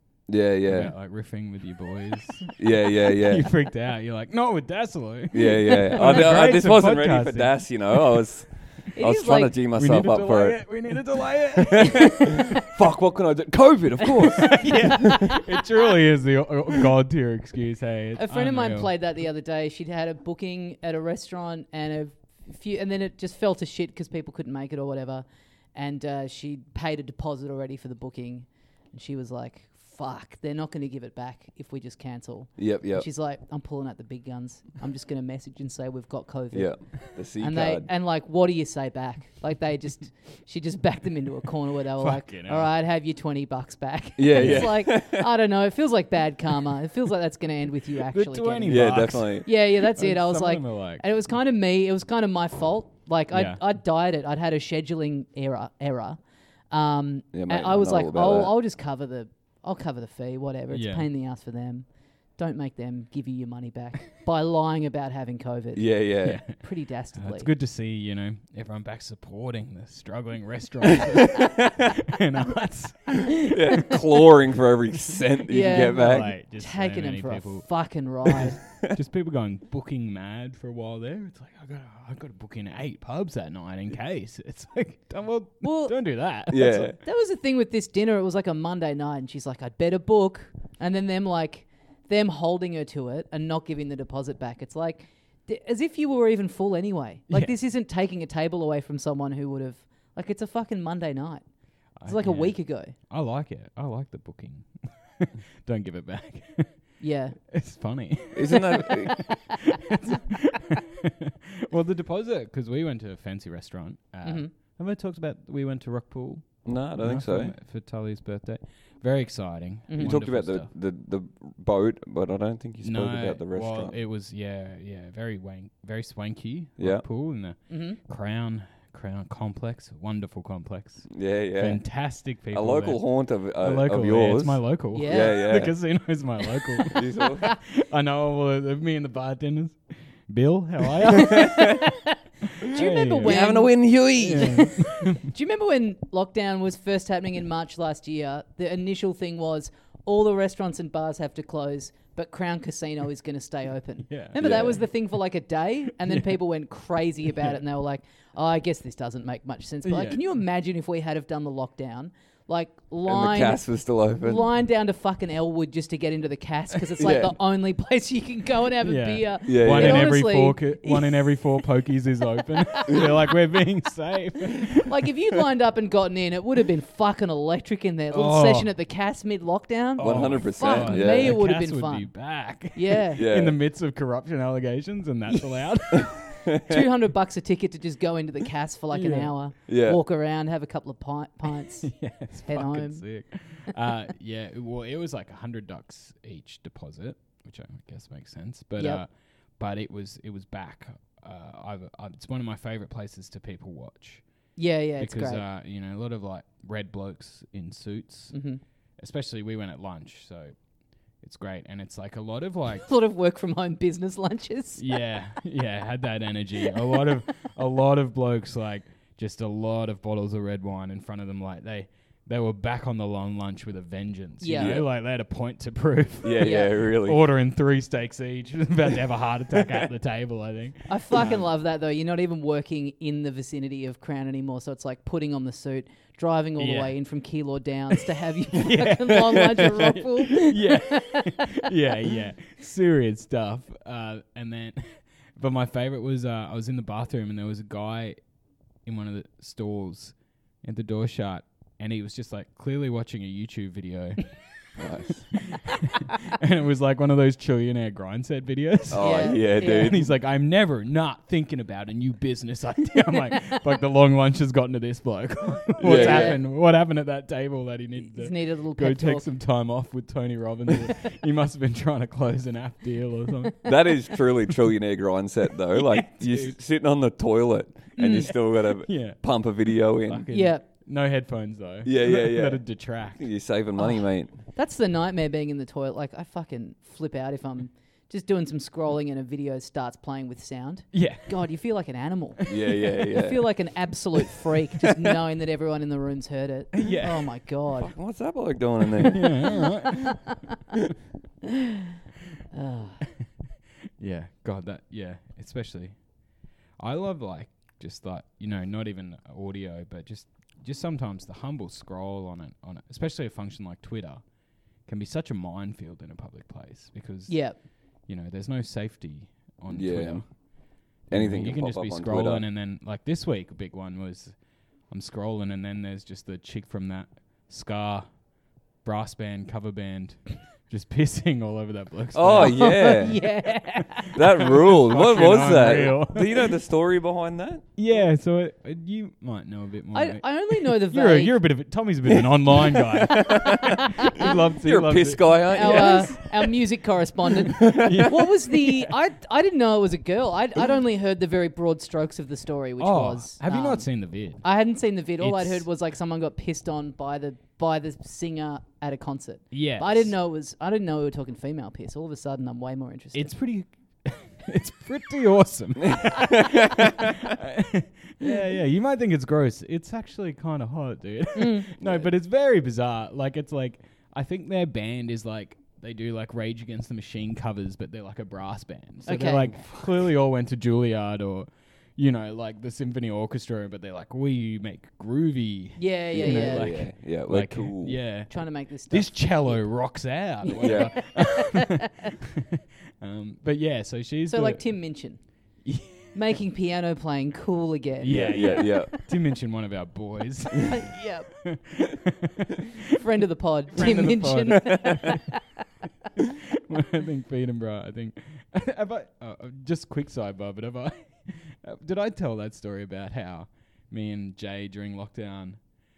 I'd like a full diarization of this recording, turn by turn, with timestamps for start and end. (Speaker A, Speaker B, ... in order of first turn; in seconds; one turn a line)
Speaker A: 0.3-0.9
Speaker B: 0.6-8.2
Speaker A: 2.6-3.5
Speaker A: 5.3-10.7
Speaker C: 5.7-6.2
Speaker C: 8.9-9.5
Speaker B: 9.7-12.6
Speaker A: 11.6-15.3
Speaker B: 14.4-18.9
Speaker C: 14.4-15.4
Speaker C: 18.2-56.2
Speaker A: 32.6-33.0
Speaker A: 36.5-37.9
Speaker B: 42.0-42.7
Speaker A: 44.2-45.2
Speaker B: 44.3-44.7
Speaker B: 48.1-51.0
Speaker A: 48.7-49.5
Speaker B: 53.3-53.6
Speaker C: 56.7-65.9
Speaker A: 57.3-58.5
Speaker B: 60.7-61.1
Speaker A: 65.8-66.4
Speaker B: 66.2-66.6
Speaker C: 66.5-67.5
Speaker B: 67.1-73.4
Speaker A: 71.3-71.6
Speaker A: 73.4-76.3
Speaker C: 75.5-78.6
Speaker B: 75.7-77.7
Speaker B: 78.4-87.0
Speaker C: 85.6-85.9
Speaker A: 86.5-87.0
Speaker C: 86.6-101.4
Speaker B: 102.0-106.9
Speaker C: 102.0-102.9
Speaker C: 107.0-107.3
Speaker B: 107.5-120.7
Speaker A: 108.3-109.2
Speaker C: 114.2-114.5
Speaker A: 116.6-117.5
Speaker C: 119.9-120.2
Speaker A: 120.0-123.9
Speaker B: 122.8-141.9
Speaker A: 126.8-127.0
Speaker C: 127.7-128.0
Speaker A: 131.1-131.8
Speaker A: 132.5-135.7
Speaker C: 134.9-135.4
Speaker C: 136.6-137.5
Speaker A: 136.9-137.5
Speaker A: 141.2-141.8
Speaker C: 141.2-142.0
Speaker B: 142.6-143.6
Speaker C: 142.6-163.6
Speaker A: 143.2-144.7
Speaker B: 144.1-145.2
Speaker B: 154.1-154.4
Speaker A: 154.4-154.8
Speaker B: 159.8-160.2
Speaker A: 163.1-164.4
Speaker C: 164.2-171.7
Speaker A: 167.0-167.3
Speaker B: 168.8-174.9
Speaker A: 169.5-170.1
Speaker C: 172.5-173.3
Speaker C: 174.7-182.2
Speaker B: 178.1-178.7
Speaker B: 180.0-186.4
Speaker A: 180.0-181.4
Speaker C: 182.7-183.2
Speaker A: 183.2-183.6
Speaker C: 185.3-193.0
Speaker A: 186.5-186.8
Speaker B: 188.9-189.3
Speaker A: 189.7-190.0
Speaker B: 191.8-204.2
Speaker C: 204.6-205.4
Speaker B: 205.0-208.4
Speaker C: 208.3-208.6
Speaker B: 209.0-210.5
Speaker B: 211.2-212.9
Speaker C: 212.8-214.8
Speaker B: 214.8-231.5
Speaker C: 224.4-224.7
Speaker A: 224.6-224.9
Speaker A: 226.2-227.2
Speaker C: 226.4-226.7
Speaker C: 230.9-241.6
Speaker B: 236.6-236.9
Speaker B: 237.9-248.2
Speaker B: 248.8-254.3
Speaker A: 254.8-255.3
Speaker B: 255.3-273.7
Speaker A: 258.9-260.1
Speaker C: 259.0-259.9
Speaker A: 265.8-266.4
Speaker C: 265.9-266.4
Speaker C: 268.0-269.2
Speaker A: 273.6-280.3
Speaker B: 275.7-276.5
Speaker C: 278.0-278.3
Speaker B: 278.2-283.3
Speaker C: 280.3-280.6
Speaker A: 281.8-282.6
Speaker A: 283.2-284.3
Speaker C: 283.8-297.9
Speaker B: 290.9-291.3
Speaker A: 292.5-293.4
Speaker B: 296.8-297.3
Speaker A: 297.8-299.6
Speaker B: 299.0-300.2
Speaker C: 299.9-300.3
Speaker C: 302.5-303.0
Speaker B: 304.0-306.0
Speaker B: 306.8-314.2
Speaker B: 314.9-320.3
Speaker C: 317.3-317.6
Speaker A: 319.7-320.2
Speaker B: 321.1-324.3
Speaker A: 321.1-322.4
Speaker B: 324.9-328.1
Speaker B: 328.8-332.9
Speaker A: 332.1-333.2
Speaker C: 332.4-334.2
Speaker B: 333.9-336.5
Speaker A: 334.1-337.6
Speaker B: 337.8-346.2
Speaker C: 339.9-341.4
Speaker A: 342.7-346.3
Speaker C: 343.2-344.3
Speaker C: 345.5-353.9
Speaker A: 347.4-348.1
Speaker B: 347.6-348.9
Speaker B: 352.8-354.4
Speaker C: 354.4-363.3
Speaker B: 355.2-355.7
Speaker B: 359.5-360.1
Speaker B: 363.1-394.8
Speaker A: 365.8-367.2
Speaker C: 371.4-371.7
Speaker A: 371.8-372.1
Speaker C: 379.1-379.6
Speaker C: 385.8-386.7
Speaker A: 386.1-388.0
Speaker C: 388.3-389.8
Speaker C: 390.4-392.1
Speaker A: 390.6-390.9
Speaker C: 394.3-395.2
Speaker B: 395.6-396.2
Speaker C: 396.1-399.1
Speaker B: 398.0-402.8
Speaker A: 398.1-398.9
Speaker C: 400.6-401.3
Speaker C: 402.9-405.4
Speaker B: 403.7-405.2
Speaker B: 406.2-415.6